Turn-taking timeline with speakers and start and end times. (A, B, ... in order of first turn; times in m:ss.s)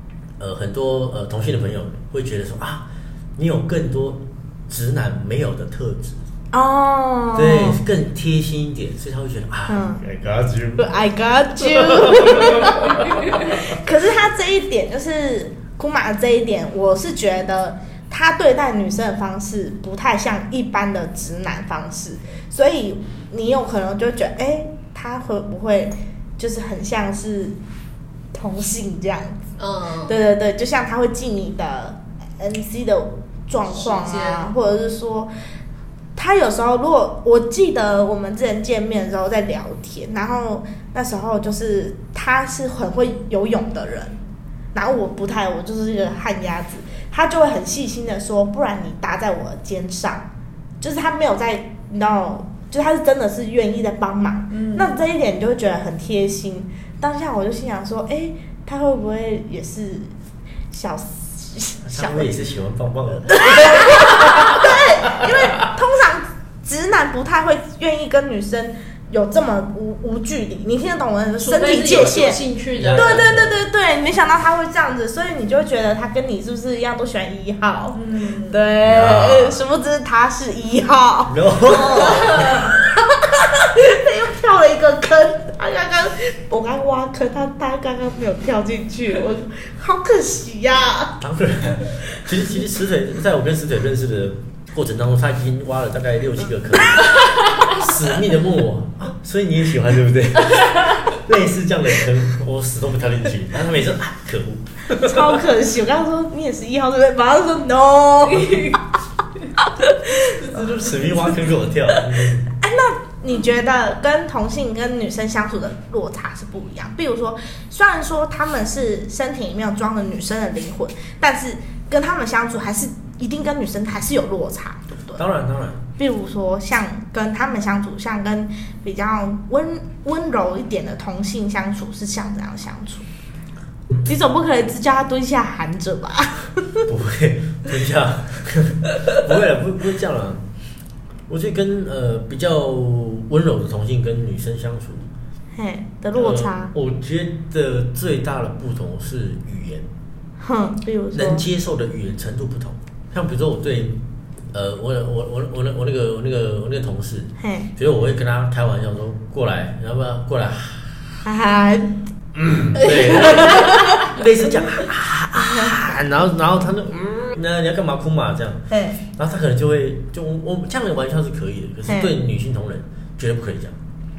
0:00.4-0:06.2 A
0:06.5-0:07.8 B
0:07.3-0:10.9 A
0:09.7-0:10.0 B
0:10.8-0:27.6 B
0:11.6-0:13.6 A
0:28.3-0:29.4 B
0:29.6-0:30.2 C
0:30.0-0:35.3 B
0:33.7-0:34.5 C
0:36.1-0:44.2 B
0:44.7-0:50.3 B
0:50.8-1:00.1 B
0:54.5-0:54.9 C
1:00.7-1:02.3 B
1:01.8-1:05.7 A
1:03.3-1:31.2 B
1:11.4-1:13.3 C
1:12.8-1:13.6 A
1:17.9-1:18.7 C
1:18.8-1:19.6 A
1:21.3-1:22.7 A
1:22.4-1:22.6 C
1:31.2-1:45.4 A
1:45.0-1:48.8 B
1:48.3-1:48.8 C
1:49.6-1:51.3 B
1:50.3-1:52.5 A
1:52.4-2:05.2 B
2:05.1-2:05.8 A
2:06.0-2:13.1 B
2:14.0-2:16.8 B
2:16.9-2:20.4 A
2:21.3-2:25.1 A
2:25.5-2:26.7 B
2:26.1-2:29.9 A
2:30.4-2:31.4 B
2:31.1-2:34.0 A
2:34.5-2:41.0 A
2:37.4-2:37.7 B
2:41.2-2:42.0 B
2:42.4-2:48.6 A
2:42.9-2:44.0 B
2:45.4-2:45.8 B
2:48.7-2:49.0 B
2:49.1-2:53.8 A
2:51.9-2:52.1 B